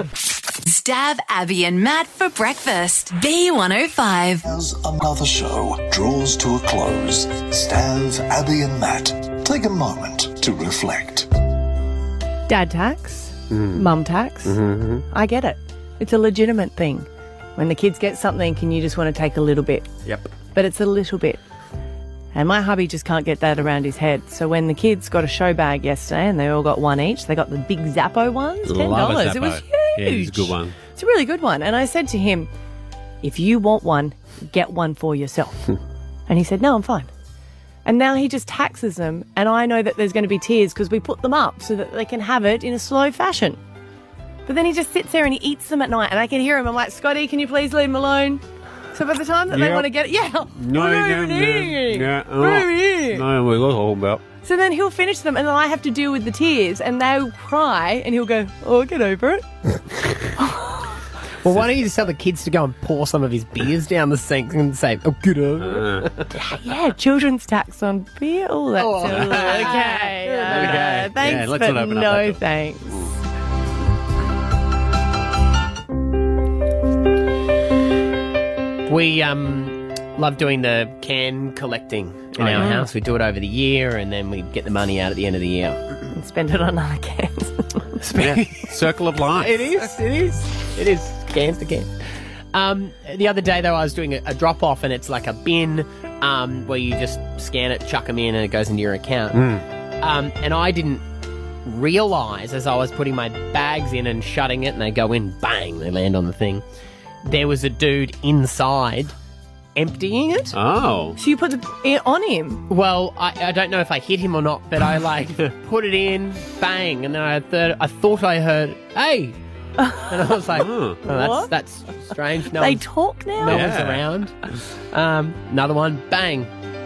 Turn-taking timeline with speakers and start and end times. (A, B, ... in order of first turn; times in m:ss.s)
0:00.6-0:04.5 A
0:04.5-0:11.2 B
0:12.5-0:14.6 C
0:13.5-0:13.9 D
0:14.4-0:15.0 D
0:15.1-0:19.9 C
0:20.5-0:21.4 C
0:22.3-0:32.5 C
0:28.6-0:30.8 D
0:33.2-0:35.7 C
0:36.3-0:37.1 C
0:37.8-0:43.6 C
0:44.5-0:53.2 C
0:49.5-0:49.9 D
0:50.6-0:54.2 D
0:54.4-0:59.5 C
1:00.4-1:00.8 C
1:01.4-1:06.4 E
1:05.6-1:06.1 D
1:06.4-1:13.0 C
1:08.8-1:11.1 E
1:09.1-1:09.8 D
1:10.5-1:13.1 D
1:18.9-1:25.8 E
1:22.4-1:22.8 D
1:22.6-1:22.9 C
1:26.1-1:28.0 C
1:28.0-1:28.7 E
1:28.1-1:29.7 D
1:29.4-1:32.0 E
1:32.5-1:39.5 E
1:39.3-1:39.6 D
1:40.0-1:41.0 E
1:41.6-1:46.6 E
1:47.2-1:49.1 E
1:49.8-1:50.6 E
1:50.5-1:51.2 D
1:51.2-1:52.6 C
1:52.7-1:59.4 E
1:59.8-2:01.5 C
2:00.1-2:02.8 E
2:00.6-2:01.0 D
2:02.1-2:03.8 C
2:03.4-2:04.1 D
2:03.4-2:04.3 E
2:04.9-2:06.5 E